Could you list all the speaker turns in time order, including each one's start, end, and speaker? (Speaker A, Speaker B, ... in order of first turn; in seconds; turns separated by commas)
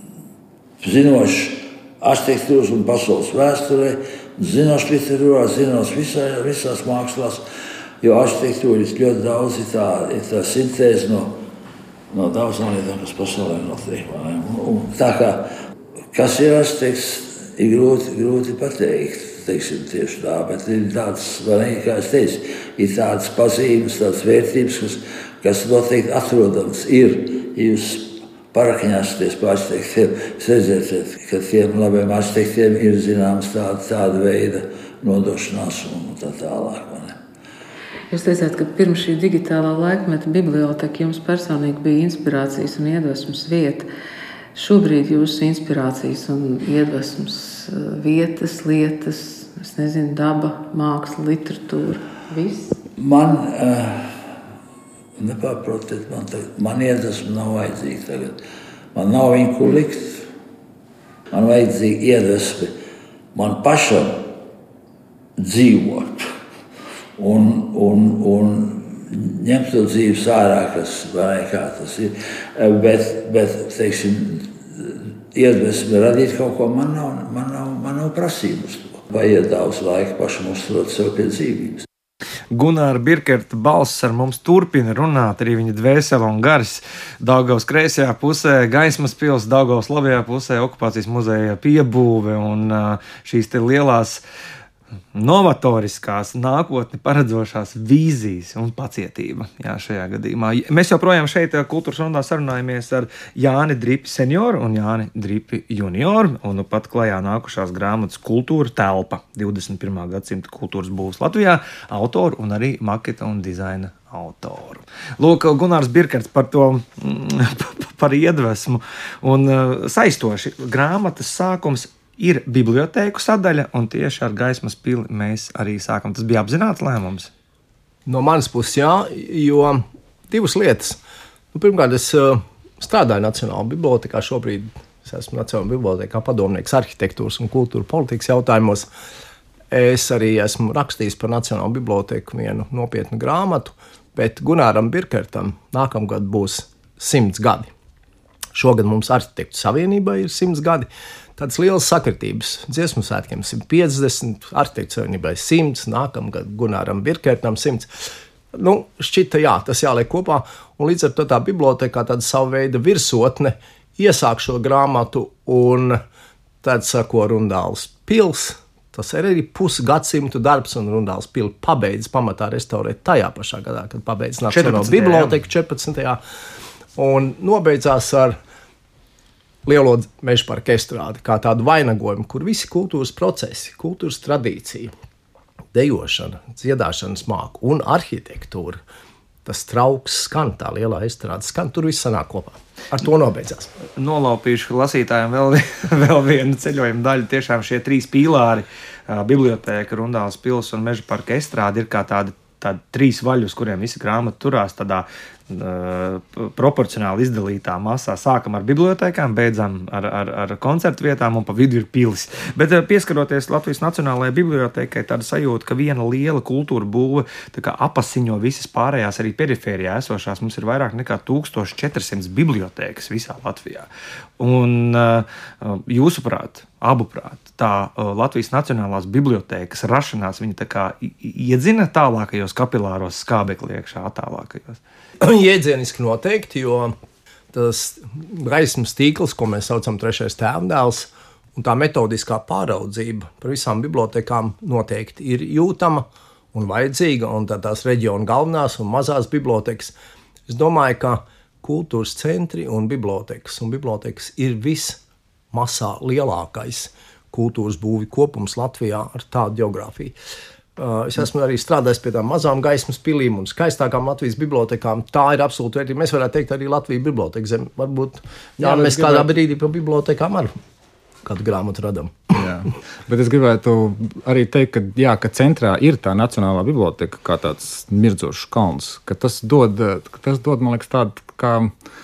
Speaker A: 0.8-7.4, Speaker A: 8.0-11.3, Speaker A: 12.1-15.5, Speaker A: 16.1-37.1, Speaker B: 38.1-43.9, Speaker B: 44.5-52.8, Speaker A: 53.0-54.2, Speaker A: 55.2-58.4, Speaker A: 58.9-60.3, Speaker A: 61.3-62.7, Speaker A: 63.3-64.3, Speaker A: 65.4-66.3, Speaker A: 67.2-81.8, Speaker C: 82.5-94.2, Speaker C: 95.1-127.3, Speaker D: 128.1-131.0, Speaker D: 131.5-138.9, Speaker D: 139.7-147.7, Speaker D: 148.5-157.9, Speaker D: 158.5-166.0, Speaker D: 166.6-176.2, Speaker C: 174.5-175.3, Speaker D: 176.9-178.4, Speaker D: 179.6-184.9, Speaker D: 185.7-188.8, Speaker D: 189.4-193.7, Speaker C: 193.9-223.9, Speaker C: 224.4-234.8, Speaker D: 235.2-236.9, Speaker D: 237.5-249.9, Speaker D: 250.5-255.0, Speaker D: 255.5-260.1, Speaker D: 260.8-270.5, Speaker E: 268.6-269.3, Speaker D: 271.2-272.4, Speaker E: 272.3-281.7